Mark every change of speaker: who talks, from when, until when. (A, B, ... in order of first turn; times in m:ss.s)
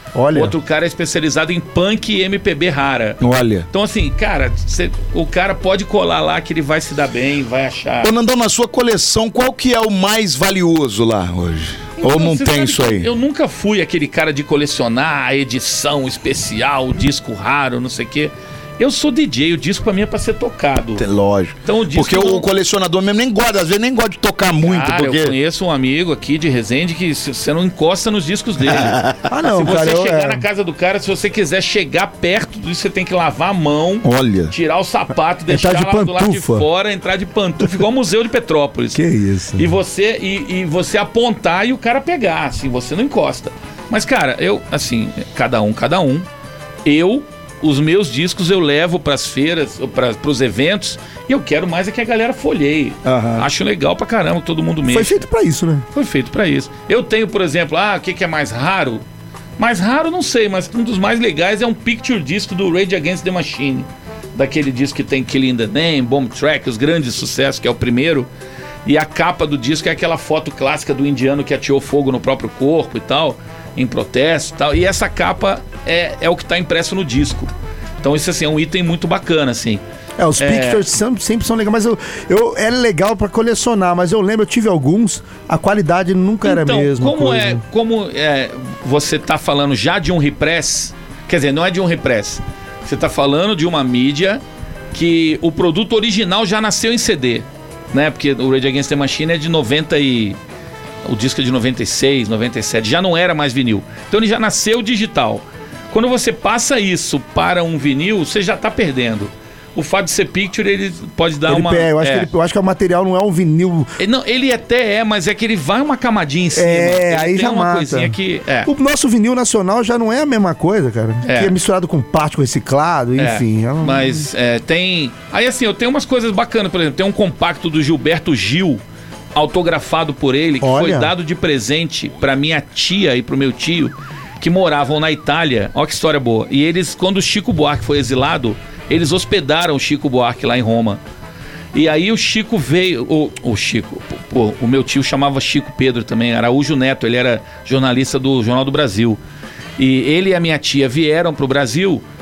0:00.1-0:00.5 A
0:00.3-0:08.1 B
0:03.2-0:03.7 C
0:08.0-0:13.1 C
0:12.0-0:21.0 B
0:21.0-0:25.3 C
0:21.6-0:22.5 B
0:24.6-0:39.0 B
0:28.7-0:29.2 C
0:29.3-0:30.4 A
0:34.0-0:34.5 C
0:35.5-0:36.6 A
0:38.9-0:39.7 A
0:39.6-0:46.2 B
0:46.8-0:55.2 B
0:53.0-0:53.4 C
0:54.9-0:55.8 A
0:55.9-0:59.0 B
0:59.6-1:08.3 B
1:08.8-1:19.8 B
1:20.2-1:27.6 A
1:20.4-1:20.8 B
1:26.4-1:40.4 B
1:41.0-1:52.3 B
1:51.5-1:53.9 A
1:54.0-1:58.7 B
1:56.5-2:04.3 A
2:01.2-2:01.5 B
2:03.2-2:08.8 B
2:09.3-2:21.0 B
2:10.6-2:11.1 A
2:21.7-2:29.2 B
2:29.8-2:32.0 B